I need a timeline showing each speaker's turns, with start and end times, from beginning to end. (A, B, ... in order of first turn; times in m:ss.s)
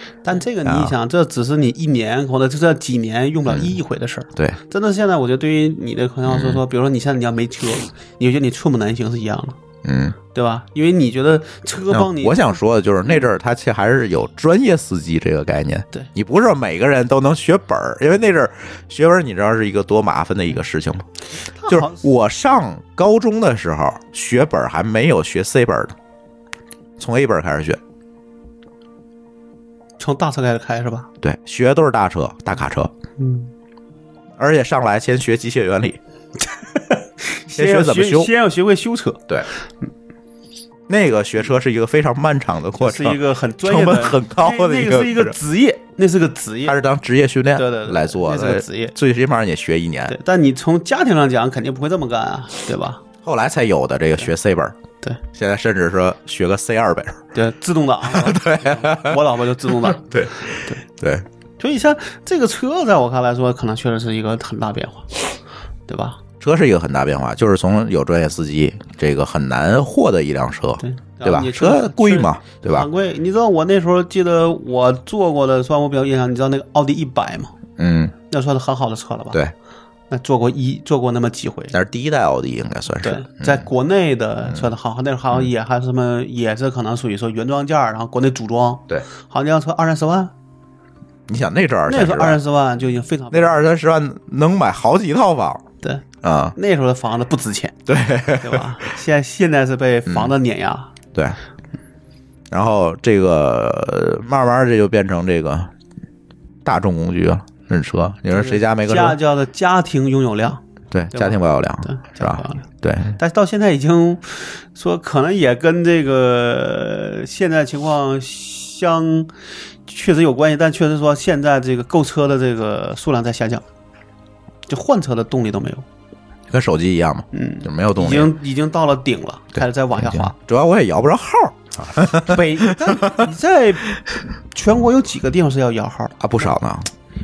0:00.2-0:09.6 A
0:00.6-0:00.9 B
0:03.5-0:03.8 B
0:06.3-0:06.6 B
0:09.8-0:10.2 B
0:10.3-0:12.6 A
0:11.9-0:21.1 B
0:21.6-0:22.0 A
0:21.6-0:26.0 B
0:27.0-0:27.8 B
0:30.0-0:31.1 A
0:31.2-0:32.9 B
0:33.2-0:33.5 A
0:34.4-0:36.0 B
0:36.9-0:39.3 A
0:37.5-0:38.3 B
0:40.9-0:45.4 B
0:42.8-0:46.8 A
0:46.6-0:50.2 B
0:47.6-0:48.9 A
0:50.1-0:53.0 A
0:53.2-0:54.8 B
0:55.3-0:57.2 B
0:57.3-1:00.8 A
0:58.0-1:01.2 B
1:01.6-1:05.2 A
1:05.9-1:06.2 A
1:06.4-1:12.9 B
1:10.8-1:17.5 A
1:17.8-1:18.1 B
1:18.3-1:19.4 A
1:20.1-1:21.8 A
1:21.7-1:23.6 B
1:23.0-1:30.3 A
1:31.3-1:32.4 B
1:31.9-1:33.6 A
1:33.3-1:35.6 B
1:36.2-1:36.6 B
1:36.6-1:37.8 A
1:37.9-1:38.8 B
1:38.4-1:40.9 A
1:40.1-1:40.4 B
1:42.5-1:45.7 B
1:46.6-1:49.2 B
1:48.3-1:50.6 A
1:50.9-1:53.2 B
1:51.1-1:59.3 A
1:59.9-2:03.6 A
2:04.7-2:05.8 A
2:06.5-2:08.3 B
2:07.3-2:10.4 A
2:09.6-2:13.3 B
2:12.2-2:16.5 A
2:16.2-2:16.9 B